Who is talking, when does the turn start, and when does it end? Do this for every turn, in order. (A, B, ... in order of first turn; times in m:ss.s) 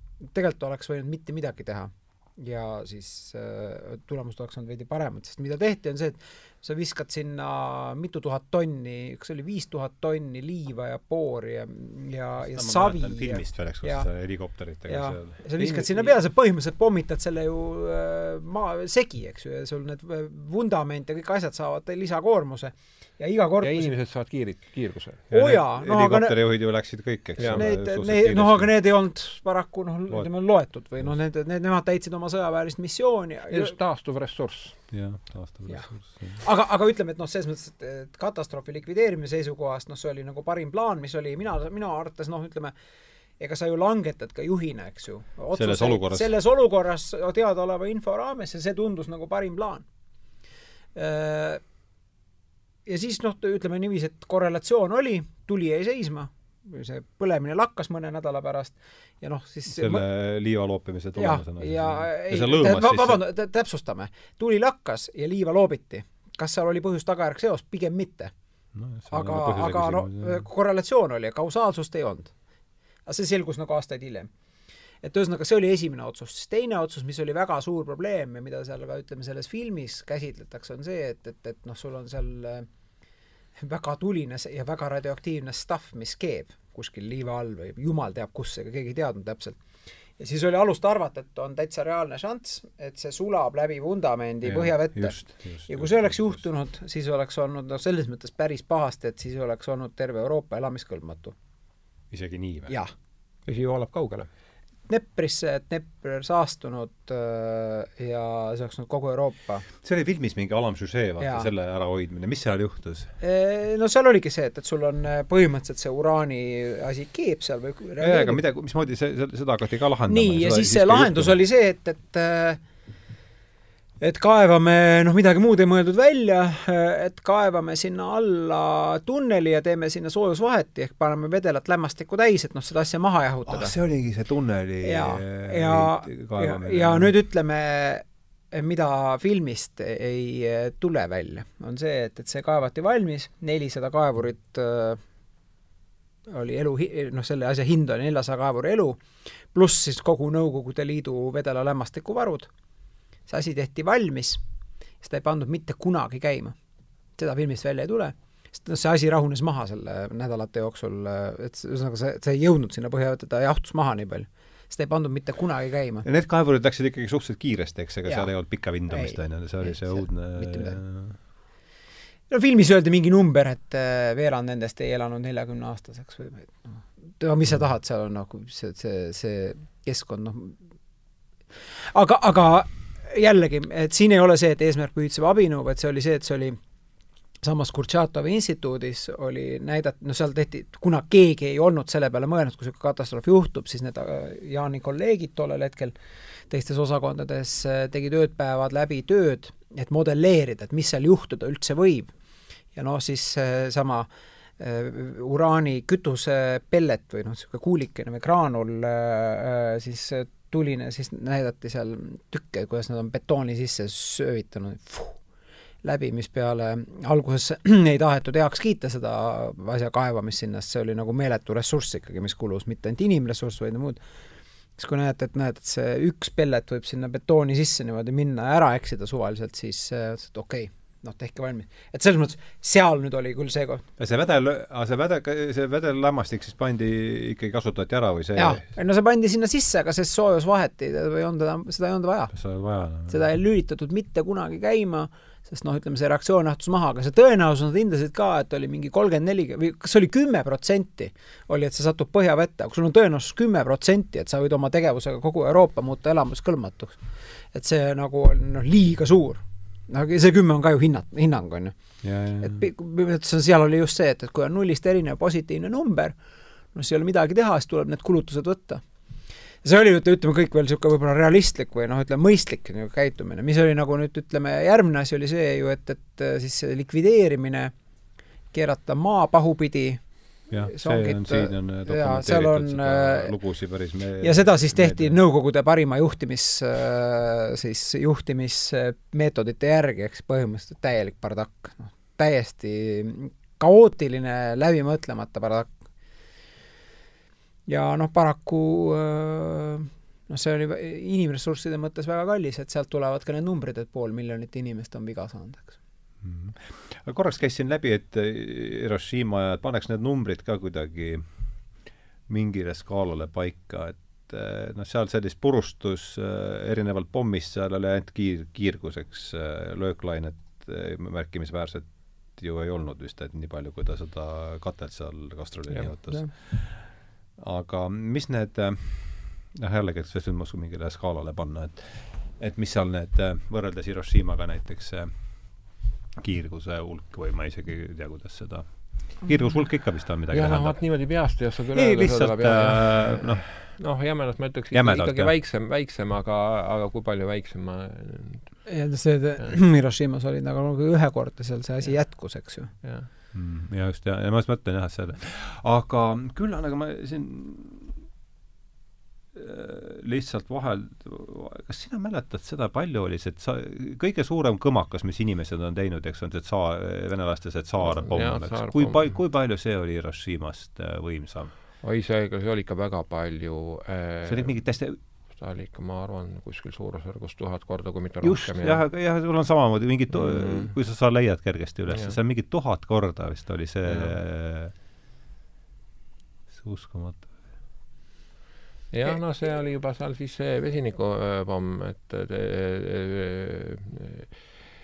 0:00.2-0:14.1 A
0:12.4-0:15.4 B
0:14.9-0:23.9 A
0:15.6-0:16.1 C
0:23.6-0:25.3 C
0:25.3-0:28.7 B
0:25.3-0:26.4 A
0:27.4-0:27.6 C
0:27.5-0:33.7 A
0:33.5-0:34.8 C
0:34.9-0:36.4 B
0:35.7-0:42.7 A
0:43.4-0:49.8 A
0:45.5-0:46.3 B
0:50.9-0:51.6 A
0:52.8-1:00.0 A
0:59.6-1:03.2 B
1:01.2-1:08.3 A
1:08.7-1:10.4 B
1:09.1-1:12.3 A
1:13.0-1:14.3 A
1:15.0-1:22.7 A
1:23.6-1:29.6 A
1:30.2-1:41.3 A
1:34.4-1:36.4 B
1:42.1-1:42.8 B
1:42.7-1:42.9 A
1:43.4-1:44.3 C
1:44.9-1:49.6 A
1:49.8-1:53.1 B
1:51.2-1:51.5 A
1:53.2-1:58.4 A
1:58.0-2:01.4 B
2:00.1-2:02.6 A
2:04.0-2:13.8 A
2:13.5-2:17.1 B
2:14.8-2:25.0 A
2:26.3-2:32.5 A
2:33.3-2:34.4 A
2:35.0-2:36.6 A
2:37.2-2:46.0 A
2:46.0-2:51.2 B
2:48.0-2:50.8 A
2:52.3-3:00.6 A
3:01.8-3:06.6 A
3:07.4-3:15.9 A
3:16.5-3:22.1 A
3:22.7-3:24.1 A
3:24.6-3:35.2 A
3:35.8-3:44.0 A
3:44.8-3:53.8 A
3:54.0-3:58.6 B
3:58.4-4:02.4 A
4:02.3-4:03.2 B
4:03.1-4:21.8 A
4:22.0-4:22.6 B
4:22.4-4:26.2 A
4:26.7-4:28.8 A
4:29.6-4:37.7 A
4:38.5-4:40.0 A
4:40.5-4:45.2 B
4:40.6-4:43.3 A
4:44.2-4:55.7 A
4:57.7-5:05.7 A
5:06.2-5:43.8 B
5:40.3-5:48.7 C
5:44.7-5:45.3 B
5:48.6-5:52.7 A
5:51.8-5:53.1 C
5:53.3-5:58.0 B
5:59.3-6:11.5 B
6:07.8-6:09.1 C
6:11.8-6:18.8 C
6:14.2-6:15.0 B
6:18.2-6:24.7 B
6:20.1-6:20.7 C
6:21.9-6:22.2 C
6:23.8-6:24.2 C
6:26.5-6:27.4 B
6:28.9-6:34.3 C